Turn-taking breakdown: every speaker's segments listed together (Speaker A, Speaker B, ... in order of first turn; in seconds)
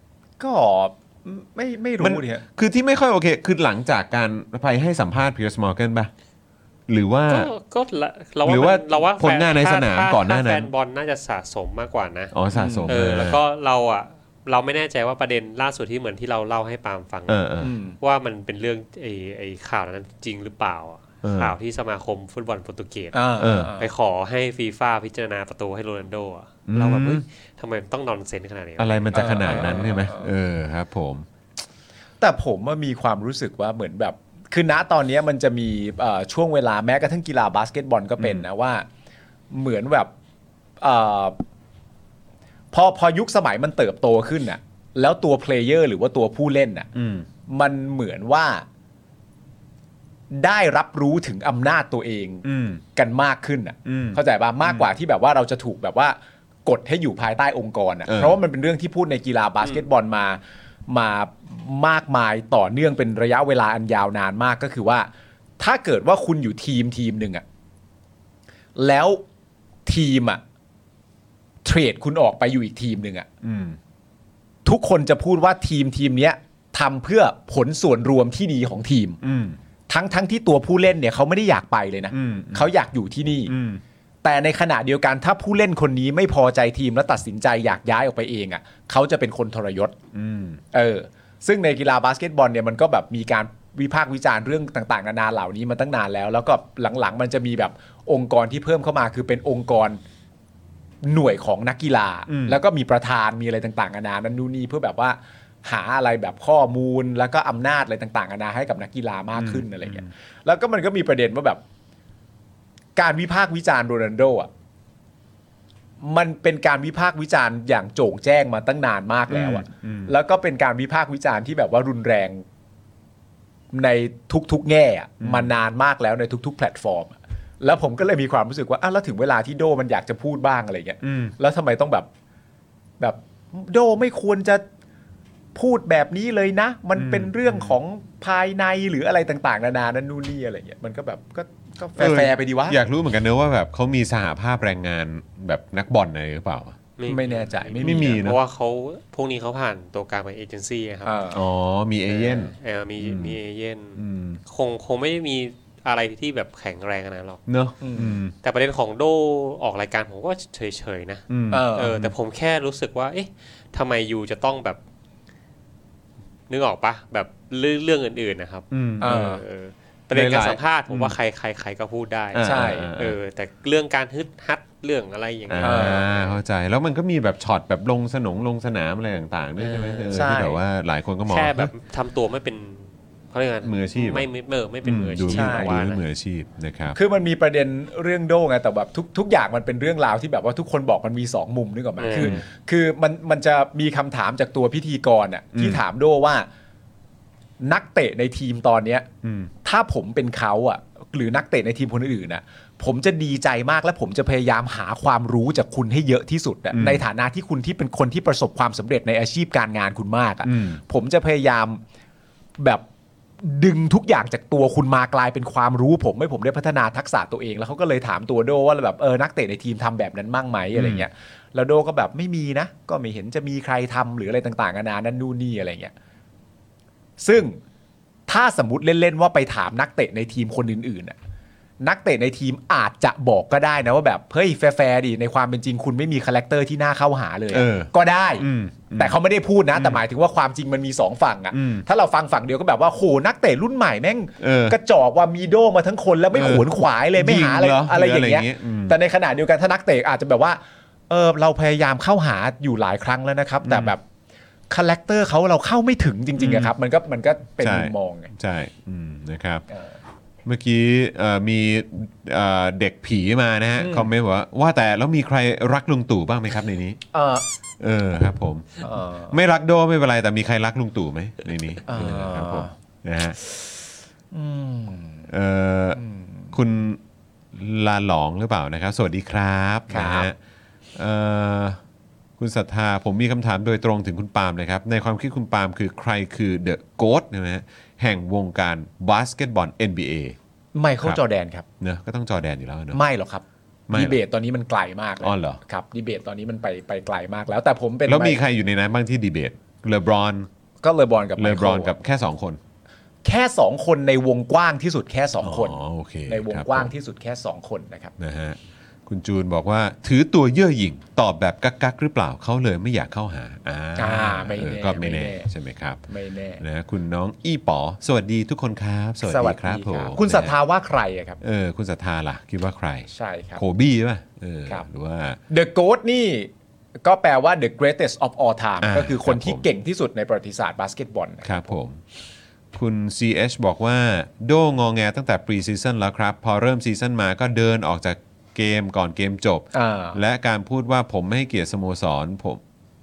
Speaker A: 0.4-2.4, 12.5-13.0, 17.6-18.0, 23.1-23.9, 29.1-30.3, 32.2-38.9, 39.5-40.1, 40.8-41.4, 42.7-46.9, 47.5-48.6, 50.3-67.4, 68.8-69.2, 69.9-70.4, 71.6-73.3, 74.7-79.2, 79.9-83.5, 84.2-90.0, 90.7-100.0, 101.0-111.6, 113.0-114.5, 116.0-122.5, 123.7-132.1, 133.0-134.6, 135.5-142.8, 147.1-148.2, 151.1-151.4, 157.8-158.2, 161.5-161.9, 169.0-169.4, 172.4-172.9, 175.6-176.0, 180.1-180.6, 185.3-185.8, 186.9-196.5, 197.6-199.1, 199.6-211.8, 212.6-212.8, 213.4-225.9, 227.2-227.6, 228.3-231.2, 231.8-254.0, 254.7-258.3, 263.8-264.1, 267.1-267.4, 268.8-269.3, 271.9-272.7, 274.3-275.3, 275.9-276.5, 279.9-280.3, 290.7-291.7, 292.9-298.4, 300.8-301.9, 303.2-308.1, 314.0-315.5, 316.1-316.6, 319.2-321.4, 323.1-323.6, 325.5-326.5, 327.0-331.5, 339.7-340.2
Speaker B: 2.0-6.1, 6.9-7.5, 8.4-10.7, 12.3-13.4, 17.3-17.7, 21.2-21.5, 23.4-23.7, 26.7-27.2, 28.8-31.3, 38.2-38.5, 46.9-47.3, 52.4-52.8, 53.9-54.9, 58.1-58.4, 73.4-73.8, 79.2-79.6, 82.1-82.7, 83.5-83.8, 90.1-90.6, 102.3-102.6, 109.3-110.1, 119.3-120.1, 125.2-125.5, 131.0-131.3, 136.9-137.8, 142.0-146.8, 147.8-148.4, 151.3-153.4, 153.9-154.4, 157.5-158.3, 161.3-162.1, 168.7-169.2, 170.1-171.2, 172.3-173.2, 175.5-181.7, 183.6-184.3, 184.8-187.0, 192.2-192.4, 195.5-195.8, 199.2-199.5, 206.7-207.0, 210.4-210.8, 220.7-221.1, 237.5-239.2, 239.7-240.0, 241.5-241.8, 244.4-244.8, 246.3-249.0, 253.6-253.9, 256.4-256.7, 257.6-259.6, 260.4-267.0, 267.8-273.4, 275.3-276.0, 276.5-277.0, 277.5-280.4, 280.9-281.8, 282.4-290.4, 291.8-293.0, 293.9-294.2, 295.2-295.6, 298.1-300.5, 301.4-302.6, 305.4-306.9, 308.2-316.0, 316.6-320.6, 321.4-325.4, 328.8-329.6, 331.4-332.0, 332.7-342.6
Speaker C: 7.3-12.3, 12.9-29.8, 147.0-151.2, 152.1-157.4, 158.4-164.8, 166.5-176.4, 179.6-180.2, 181.3-186.0, 192.0-192.4